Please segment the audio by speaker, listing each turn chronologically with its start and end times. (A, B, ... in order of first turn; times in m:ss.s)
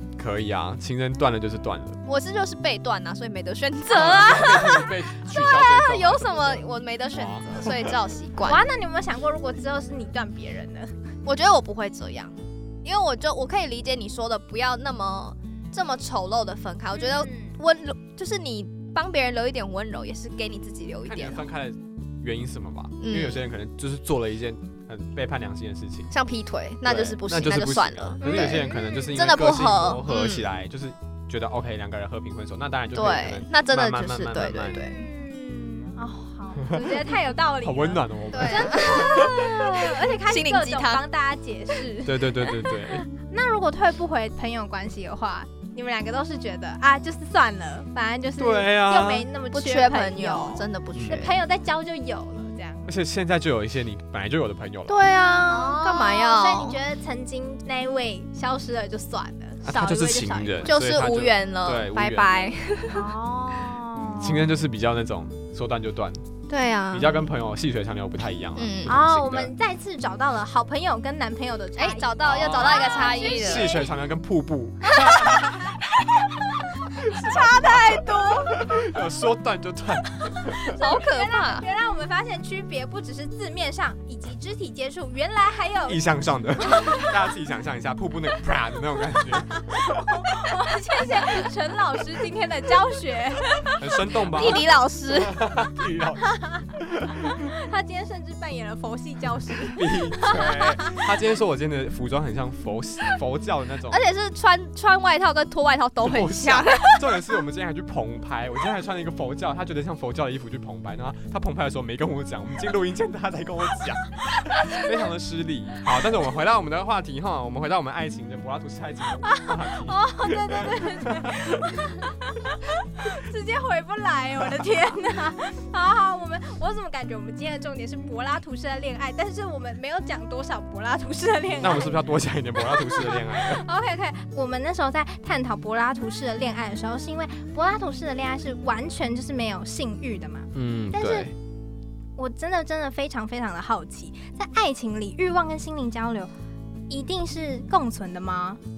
0:00.2-0:02.0 A
0:02.0-0:08.6 B
0:03.9-0:07.9 A
0:08.4-0:10.9 C
0:11.2-0:21.4 B
0:16.9-0:17.6 C
0:21.0-0:26.1 A
0:23.0-0:23.4 B
0:26.1-0:30.5 B
0:26.8-0:34.8 A
0:28.2-0:29.2 C
0:32.9-0:35.0 B
0:34.7-0:52.9 C
0:36.6-0:37.0 A
0:37.6-0:39.4 A
0:38.3-0:41.0 B
0:42.0-0:43.0 A
0:48.4-0:49.3 A
0:49.5-0:51.4 B
0:50.9-0:51.3 A
0:52.9-0:55.1 A
0:54.9-0:56.8 B
0:55.5-1:00.7 C
0:59.6-1:02.5 A
1:00.6-1:03.1 B
1:02.9-1:04.5 C
1:04.2-1:06.2 A
1:06.5-1:07.2 B
1:06.9-1:09.5 A
1:08.6-1:09.0 B
1:08.9-1:13.9 C
1:11.8-1:13.8 B
1:12.2-1:15.8 A
1:17.0-1:20.7 A
1:17.1-1:18.6 B
1:20.4-1:26.0 C
1:20.7-1:21.6 B
1:25.8-1:30.3 A
1:26.6-1:27.1 C
1:29.5-1:34.6 C
1:33.8-1:37.4 A
1:34.2-1:35.4 B
1:36.2-1:41.0 C
1:39.6-1:44.0 A
1:43.9-1:47.1 B
1:46.0-2:01.9 A
1:59.2-2:21.3 C
2:11.6-2:13.6 A
2:20.5-2:21.3 A
2:22.2-2:26.3 C
2:26.9-2:28.6 C